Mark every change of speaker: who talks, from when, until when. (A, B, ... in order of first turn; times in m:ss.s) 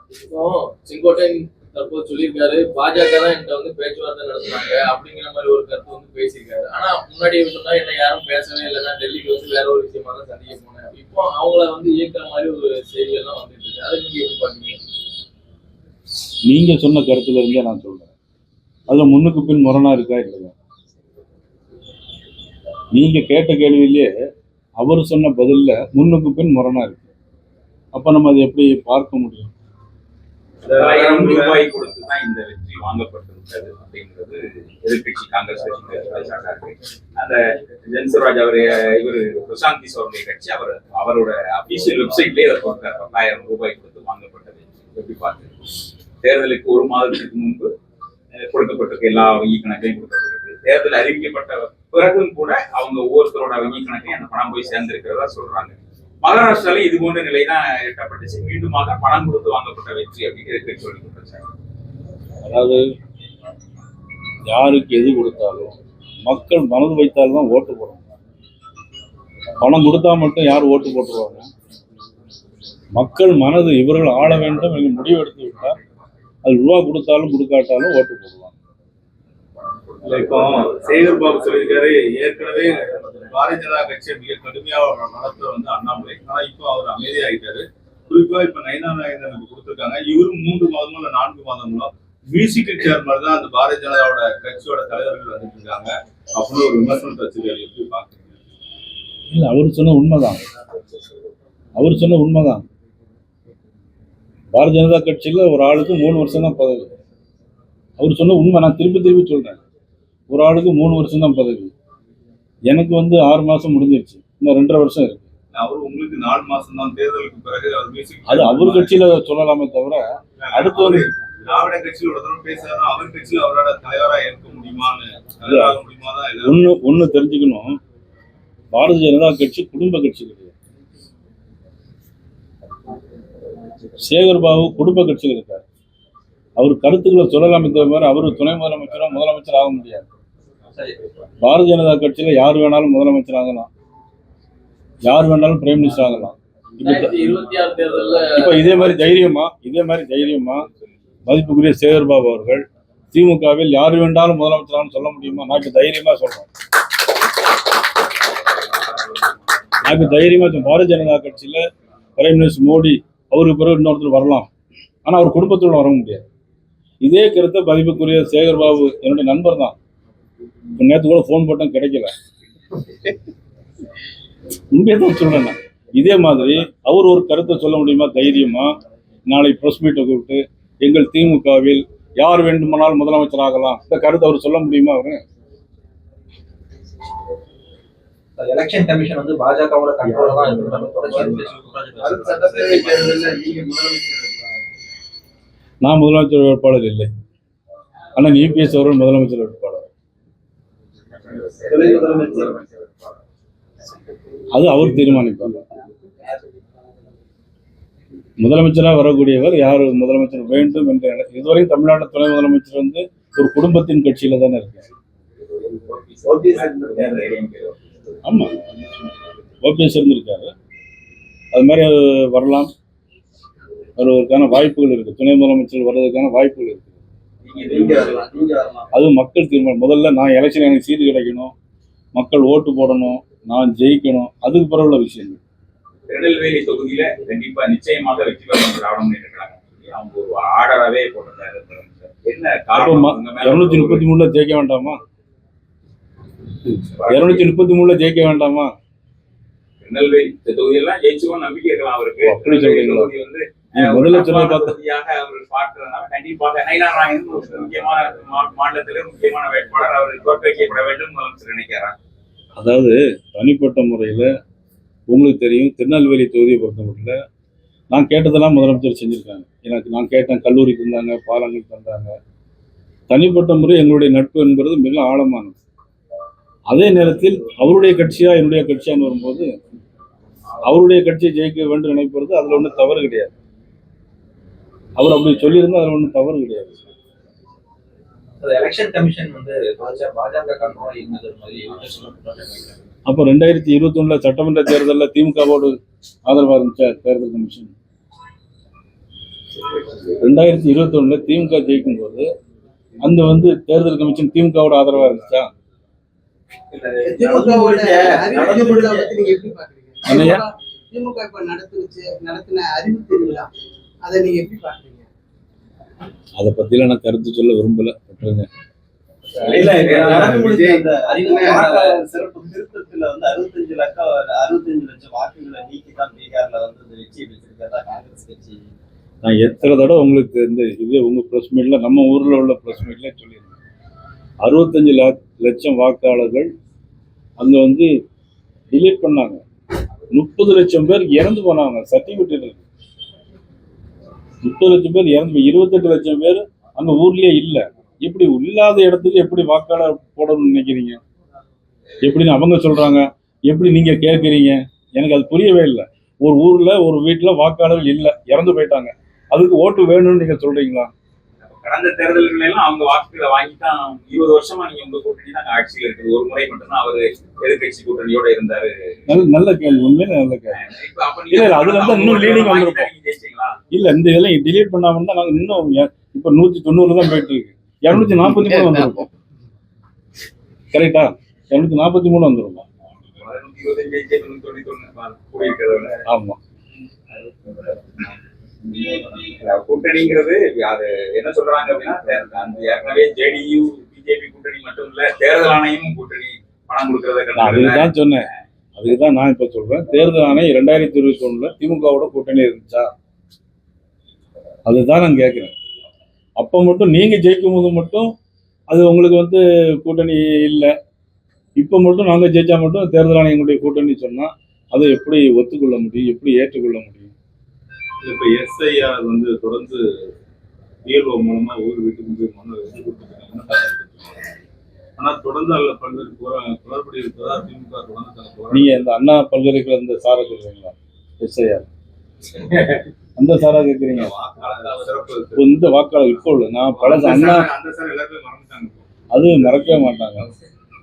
0:00.3-0:14.8 A
0:16.5-0:18.1 B
0:18.9-0:20.5 B
0:22.9-0:24.1 B
0:24.8-0:27.1 B
0:27.9-0:29.5 B
0:30.6-0:31.6 C
0:30.8-0:45.5 D
0:46.2-0:47.7 D
0:48.3-1:01.5 D
1:02.4-1:02.8 B
1:04.5-1:05.7 B
1:06.3-1:08.0 B
1:09.6-1:11.5 B
1:13.0-1:15.8 B
1:16.4-1:18.5 B
1:20.0-1:38.3 C
1:39.3-1:40.4 B
1:41.8-1:42.6 B
1:44.5-1:46.9 B
1:48.0-1:49.6 B
1:50.3-1:51.7 B
1:52.7-1:55.2 B
1:55.5-1:59.0 C
1:58.2-2:01.1 B
2:00.4-2:06.7 C
2:05.4-2:05.8 B
2:06.4-2:07.7 B
2:08.7-2:10.5 B
2:14.0-2:15.6 B
2:16.6-2:20.0 B
2:21.4-2:23.7 B
2:25.0-2:27.1 B
2:26.8-2:29.0 A
2:28.3-2:30.6 B
2:31.2-2:36.5 B
2:39.8-2:41.6 B
2:42.2-2:44.5 B
2:45.0-2:46.2 B
2:47.0-2:49.7 B
2:50.8-2:52.1 B
2:54.7-2:58.7 B
2:59.3-3:05.2 B
3:08.4-3:13.6 E
3:12.0-3:14.6 F
3:15.8-3:17.1 B
3:18.2-3:19.9 B
3:21.2-3:23.1 D
3:21.7-3:22.6 F
3:24.5-3:25.6 B
3:28.4-3:34.8 B
3:35.7-3:38.2 D
3:36.2-3:37.2 F
3:38.2-3:38.6 B
3:39.6-3:40.5 B
3:41.5-3:42.7 B
3:44.0-3:47.0 B
3:47.4-3:48.2 D
3:47.6-3:48.9 F
3:48.9-3:51.5 B
3:52.1-3:55.4 B
3:56.1-4:04.0 D
4:02.7-4:05.0 B
4:06.8-4:07.4 D
4:07.1-4:08.7 B
4:09.8-4:22.0 D
4:12.2-4:13.1 B
4:13.7-4:14.7 B
4:22.6-4:24.3 B
4:25.1-4:27.1 B
4:27.9-4:32.1 B
4:33.1-4:35.6 B
4:36.7-4:39.5 B
4:40.7-4:43.3 B
4:45.0-4:46.8 B
4:48.4-4:52.7 E
4:53.1-4:55.7 B
4:56.3-4:57.7 B
5:00.2-5:02.3 B
5:03.0-5:05.5 B
5:06.7-5:09.1 F
5:07.0-5:13.5 G
5:10.0-5:10.4 B
5:14.0-5:15.1 G
5:16.4-5:18.5 B
5:19.4-5:28.7 F
5:19.4-5:22.0 E
5:29.2-5:33.6 B
5:34.4-5:36.5 B
5:37.4-5:37.9 B
5:38.7-5:39.4 B
5:40.1-5:42.6 B
5:44.4-5:51.0 B
5:52.0-6:00.9 B
6:01.5-6:09.0 D
6:09.1-6:10.6 B
6:10.5-6:13.6 D
6:11.3-6:12.9 B
6:13.7-6:19.1 B
6:20.7-6:22.6 B
6:23.2-6:26.0 D
6:26.1-6:26.4 B
6:28.9-6:38.0 D
6:37.4-6:38.2 B
6:38.8-6:42.9 B
6:44.7-6:45.5 B
6:46.4-6:48.1 B
6:48.7-6:50.7 B
6:51.6-6:57.1 B
6:58.0-7:00.1 C
7:00.8-7:04.3 C
7:05.0-7:08.8 C
7:08.5-7:11.7 B
7:13.2-7:14.1 B
7:13.9-7:15.6 C
7:15.4-7:17.5 B
7:16.6-7:18.9 C
7:19.1-7:20.3 B